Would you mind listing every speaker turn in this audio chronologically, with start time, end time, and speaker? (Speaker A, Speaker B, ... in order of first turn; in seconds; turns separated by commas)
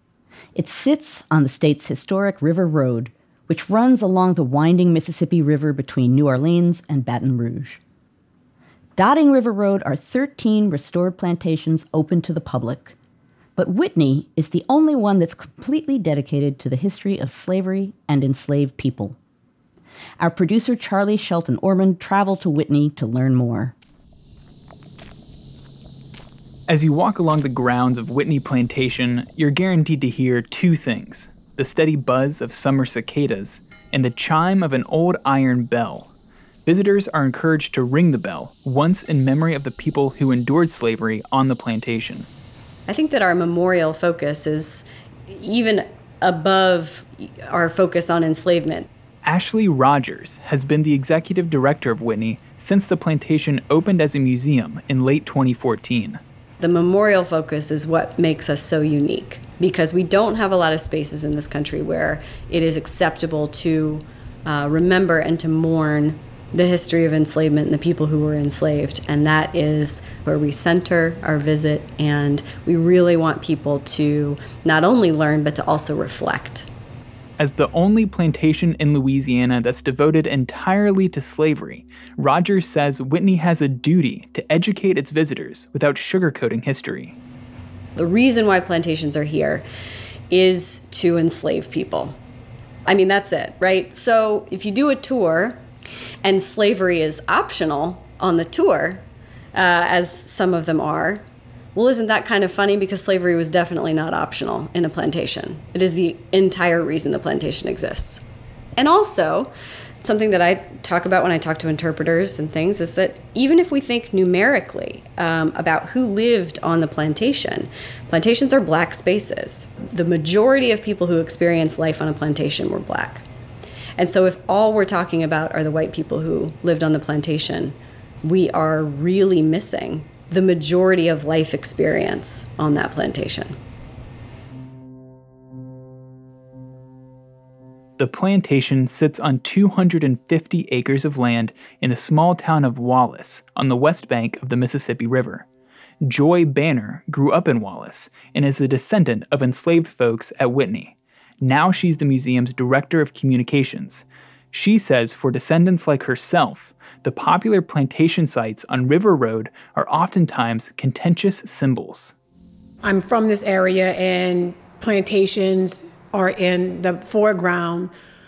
Speaker A: 0.5-7.8, Speaker A: 9.0-12.9, Speaker A: 13.6-19.2, Speaker A: 20.2-23.7, Speaker B: 26.7-36.1, Speaker B: 36.6-42.3, Speaker C: 42.9-48.9, Speaker B: 49.2-56.2, Speaker C: 56.6-76.7, Speaker B: 77.4-87.2, Speaker C: 88.0-89.6, Speaker C: 90.3-92.2, Speaker C: 92.9-95.6, Speaker C: 96.2-108.2, Speaker C: 108.8-109.5, Speaker C: 110.0-123.2, Speaker C: 124.0-133.5, Speaker B: 138.0-145.4, Speaker B: 146.0-162.1, Speaker D: 162.8-167.9